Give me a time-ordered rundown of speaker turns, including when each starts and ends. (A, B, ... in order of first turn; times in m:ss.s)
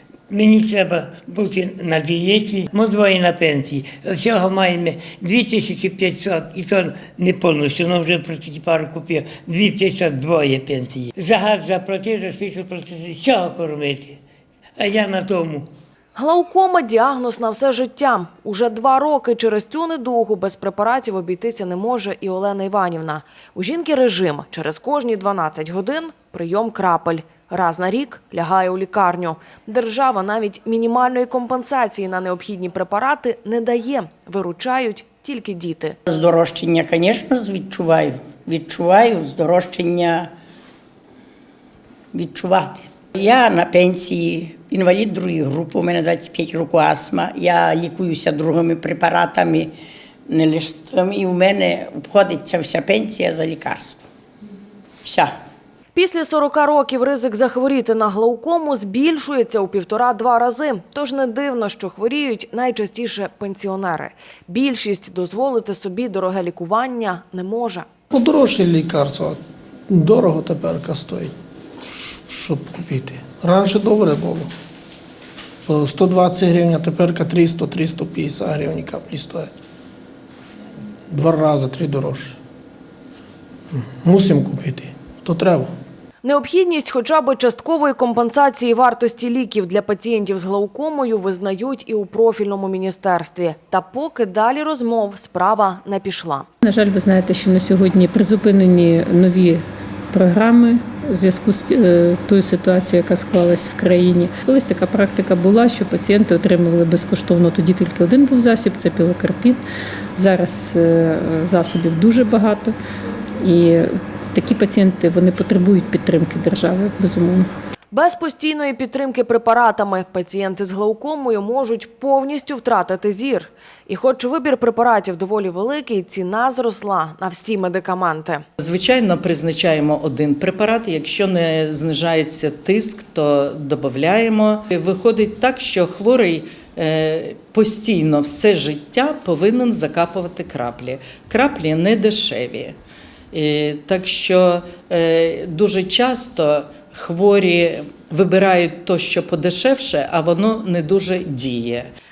0:00.3-0:14.2 A
0:14.8-0:15.7 A
0:16.2-0:36.0 B
0:36.1-0:40.3 C
0:42.1-0:49.7 C
0:50.3-0:54.0 C
0:55.0-0:55.3 C
0:56.0-1:07.9 B
1:08.1-1:11.3 D
1:11.9-1:14.5 D
1:15.7-1:19.5 D
1:21.1-1:22.4 D
1:23.7-1:25.7 D
1:26.2-1:36.5 B
1:36.6-1:49.6 E
1:50.2-1:52.7 E
1:53.4-1:57.5 E
1:57.9-2:08.4 B
2:08.6-2:22.8 F
2:23.3-2:31.9 F